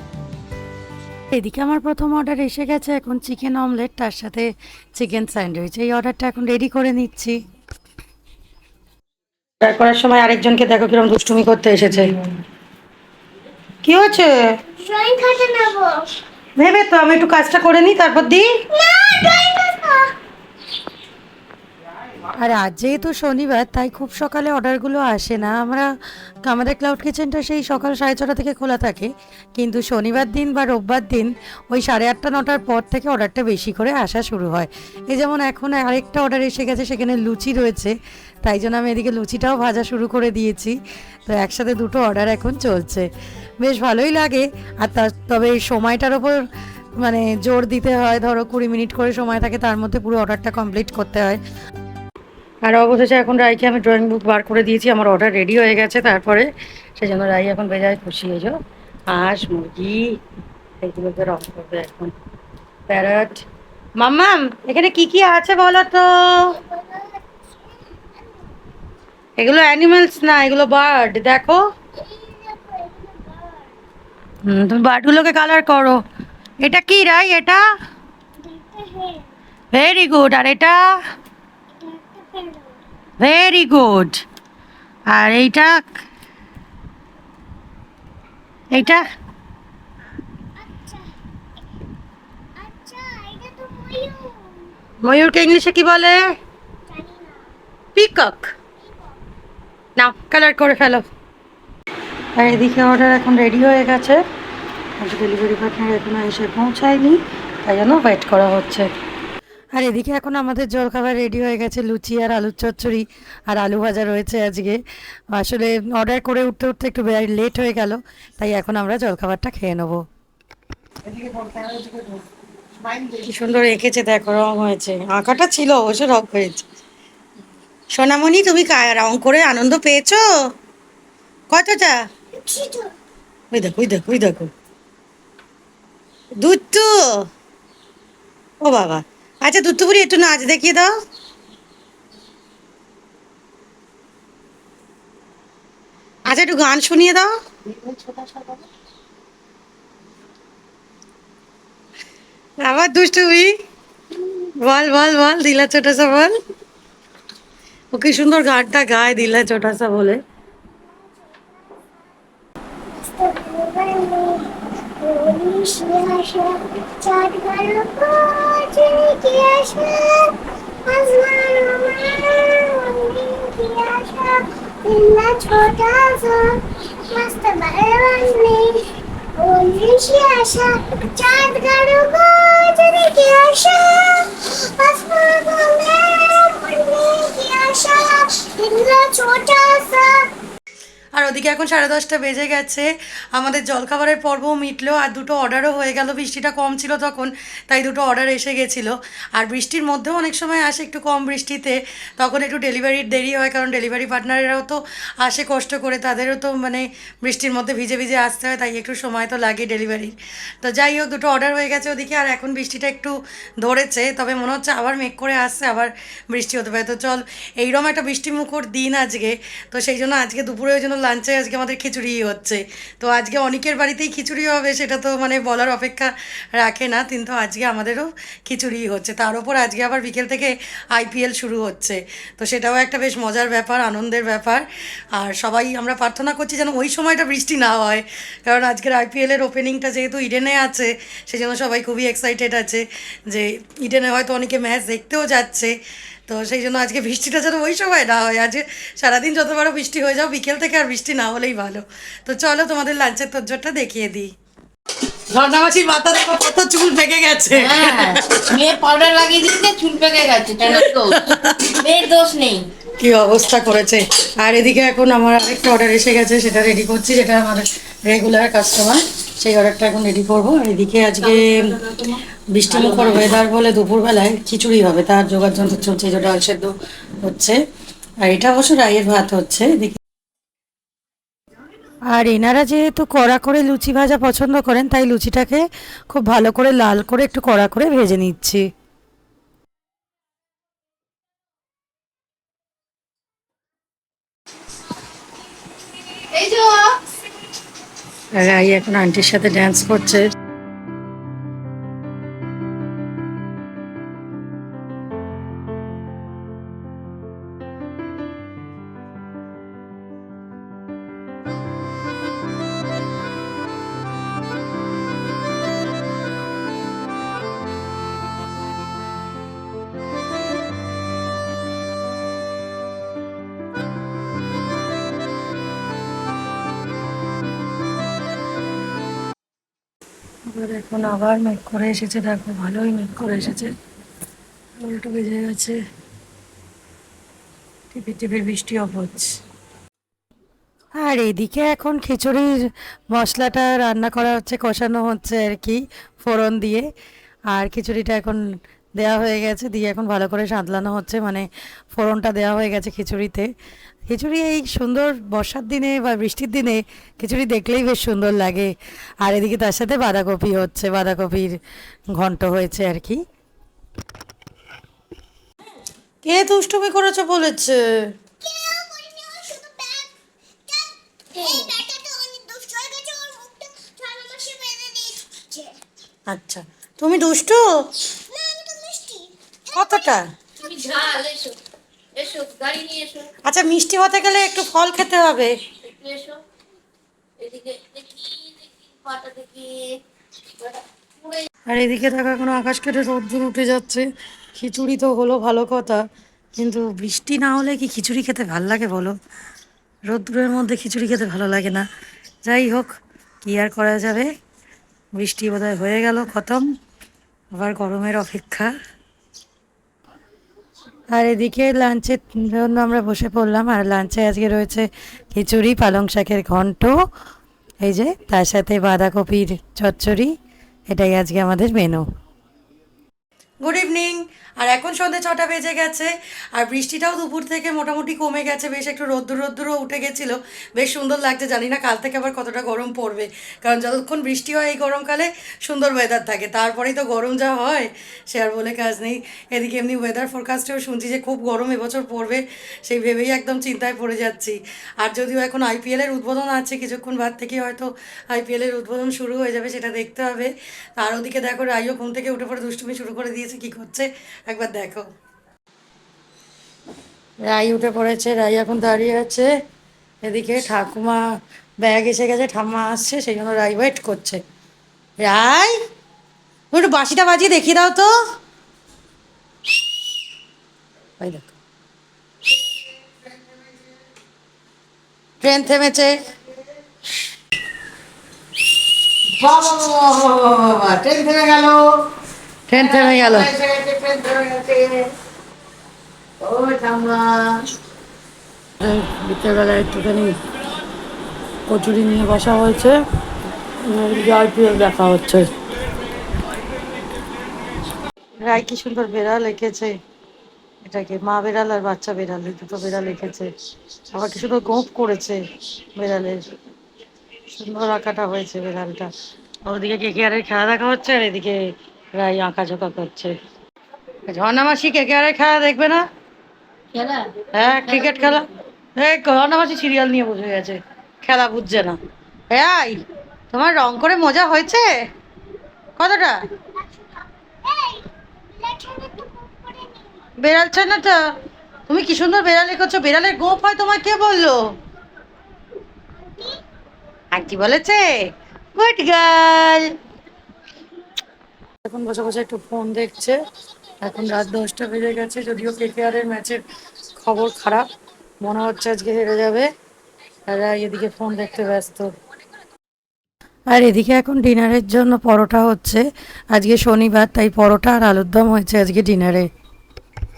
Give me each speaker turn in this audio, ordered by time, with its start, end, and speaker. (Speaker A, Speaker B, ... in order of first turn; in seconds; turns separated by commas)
Speaker A: 1.3-7.4, Speaker A: 9.6-12.2, Speaker A: 13.8-14.3, Speaker B: 14.8-16.1, Speaker A: 16.6-18.5, Speaker B: 18.7-20.1, Speaker A: 22.4-25.9, Speaker A: 26.4-40.8, Speaker A: 41.3-43.1, Speaker A: 43.6-46.4, Speaker A: 47.0-51.4, Speaker A: 52.6-58.6, Speaker A: 59.1-60.0, Speaker A: 60.8-62.1, Speaker A: 62.9-63.5, Speaker A: 64.0-66.6, Speaker B: 66.6-67.2, Speaker A: 69.4-71.6, Speaker B: 72.0-73.7, Speaker A: 74.5-76.0, Speaker A: 76.6-77.6, Speaker B: 78.5-79.3, Speaker A: 79.7-80.9, Speaker B: 81.8-82.8, Speaker A: 83.2-84.2, Speaker A: 85.1-86.0, Speaker A: 88.7-89.0, Speaker B: 90.6-91.1, Speaker B: 92.6-94.7, Speaker A: 95.0-96.2, Speaker B: 96.9-97.4, Speaker A: 97.9-98.5, Speaker A: 100.0-101.0, Speaker A: 102.4-104.2, Speaker A: 105.0-108.9, Speaker A: 109.8-114.8, Speaker A: 115.3-120.0, Speaker C: 121.2-121.9, Speaker A: 123.0-126.7, Speaker A: 127.9-130.2, Speaker A: 131.5-132.0, Speaker B: 132.3-132.9, Speaker A: 133.5-134.5, Speaker A: 136.4-137.2, Speaker A: 138.6-140.9, Speaker A: 146.3-147.3, Speaker A: 152.6-153.5, Speaker A: 154.4-156.3, Speaker A: 157.9-160.2, Speaker B: 162.9-190.2, Speaker A: 191.2-245.8, Speaker A: 246.3-254.3, Speaker A: 255.3-258.2, Speaker C: 257.5-262.7, Speaker A: 260.6-261.7, Speaker A: 262.9-277.6, Speaker C: 272.8-273.1, Speaker A: 278.2-280.0, Speaker A: 282.1-288.6, Speaker C: 296.2-296.9, Speaker A: 298.3-300.2, Speaker A: 330.5-333.7, Speaker A: 334.8-335.8, Speaker A: 337.9-339.4, Speaker A: 341.0-346.9, Speaker A: 347.5-348.4, Speaker A: 349.0-353.5, Speaker A: 354.1-358.7, Speaker A: 359.2-361.5, Speaker A: 362.2-363.2, Speaker A: 366.2-367.8, Speaker B: 368.4-370.1, Speaker B: 370.7-375.8, Speaker A: 376.3-377.8, Speaker B: 378.3-380.1, Speaker A: 379.7-380.2, Speaker C: 380.6-381.6, Speaker B: 380.6-380.9, Speaker C: 382.1-383.3, Speaker A: 383.4-385.5, Speaker C: 385.8-386.4, Speaker C: 387.4-390.0, Speaker C: 390.6-391.5, Speaker A: 391.7-396.0, Speaker A: 396.6-399.1, Speaker A: 400.1-401.9, Speaker A: 402.4-402.9, Speaker A: 403.4-404.3, Speaker A: 405.2-406.6, Speaker A: 407.6-408.7, Speaker A: 411.1-416.9, Speaker A: 417.8-420.3, Speaker A: 420.9-422.0, Speaker A: 423.6-455.0, Speaker A: 457.4-459.5, Speaker A: 460.2-461.2, Speaker A: 461.8-464.4, Speaker A: 465.2-465.8, Speaker A: 466.7-468.1, Speaker A: 471.2-471.6, Speaker A: 475.4-476.2, Speaker A: 479.4-482.0, Speaker A: 482.7-483.6, Speaker C: 482.8-485.1, Speaker C: 486.4-487.2, Speaker A: 487.1-487.6, Speaker A: 488.8-490.4, Speaker A: 491.7-493.0, Speaker A: 493.8-495.5, Speaker A: 498.4-499.9, Speaker A: 500.8-503.5, Speaker A: 504.1-505.4, Speaker A: 505.9-506.5, Speaker A: 507.5-509.1, Speaker A: 509.6-511.6, Speaker A: 512.1-513.3, Speaker A: 514.3-516.0, Speaker C: 516.9-517.3, Speaker A: 517.5-522.0, Speaker C: 518.0-518.2, Speaker A: 522.5-524.9, Speaker A: 526.0-526.4, Speaker B: 527.6-530.2, Speaker A: 530.4-531.2, Speaker A: 531.9-534.6, Speaker B: 536.2-536.6, Speaker A: 537.3-538.2, Speaker A: 538.8-539.9, Speaker A: 541.8-543.4, Speaker A: 544.0-546.6, Speaker A: 547.2-547.9, Speaker A: 548.4-549.7, Speaker A: 550.5-552.1, Speaker A: 553.7-559.5